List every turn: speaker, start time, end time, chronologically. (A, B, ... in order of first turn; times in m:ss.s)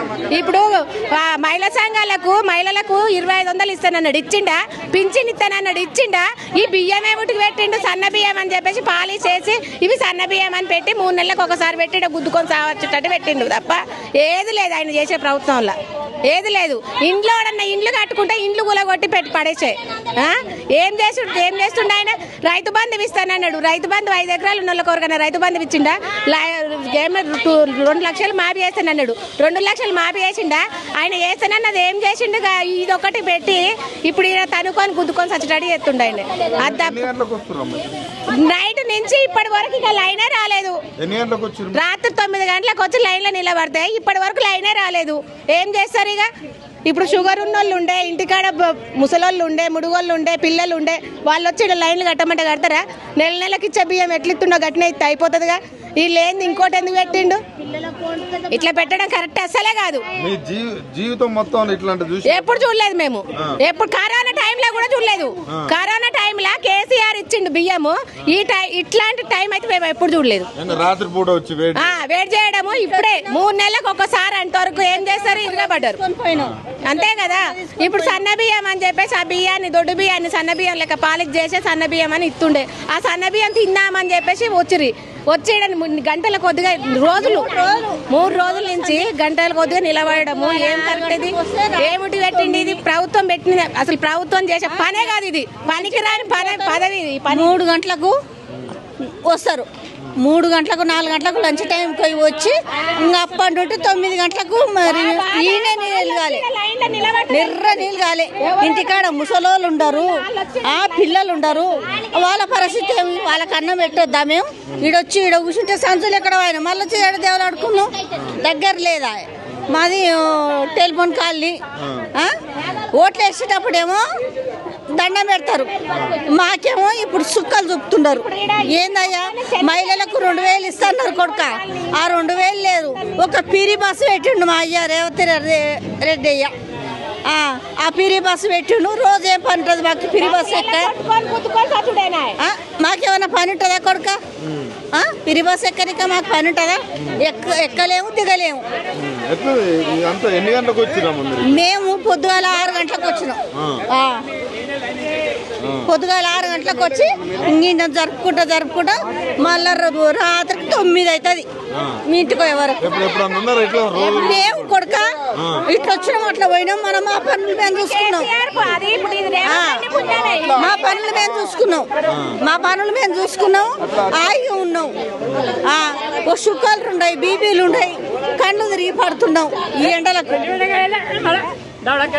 0:00.3-0:15.8 A
0:16.3-0:37.1 A
0:36.6-0:37.9 B
0:38.3-0:40.8 A
0:41.0-0:41.8 B
0:41.7-0:46.3 A
0:46.8-0:57.4 A
0:58.3-1:00.0 A
1:00.2-1:02.6 B
1:02.2-1:10.5 A
1:10.6-1:12.0 B
1:11.8-1:16.0 A
1:12.7-1:13.4 C
1:14.8-1:18.2 C
1:16.8-1:27.5 A
1:27.1-1:29.1 C
1:28.1-1:37.6 A
1:30.1-1:32.8 C
1:34.6-1:35.1 C
1:35.7-1:38.2 C
1:39.0-1:46.4 C
1:44.8-1:49.0 A
1:47.3-1:50.1 C
1:50.0-1:51.6 A
1:50.6-2:01.6 C
2:01.8-2:02.1 B
2:02.9-2:04.0 C
2:04.9-2:05.7 C
2:05.9-2:06.2 B
2:06.2-2:16.5 C
2:08.1-2:13.3 A
2:17.2-2:20.9 C
2:20.2-2:22.4 A
2:22.4-2:24.2 C
2:24.4-2:24.8 B
2:24.9-2:28.6 C
2:29.0-2:31.6 B
2:31.4-2:34.2 C
2:33.5-2:33.8 B
2:35.6-2:35.9 B
2:35.8-2:41.5 C
2:41.7-2:42.0 B
2:42.0-2:42.8 C
2:42.8-2:44.7 B
2:43.9-2:48.3 C
2:45.3-2:45.6 B
2:47.8-2:50.9 A
2:49.4-2:49.9 C
2:50.5-2:51.9 C
2:52.1-2:52.4 B
2:52.4-2:54.9 C
2:55.6-3:00.9 C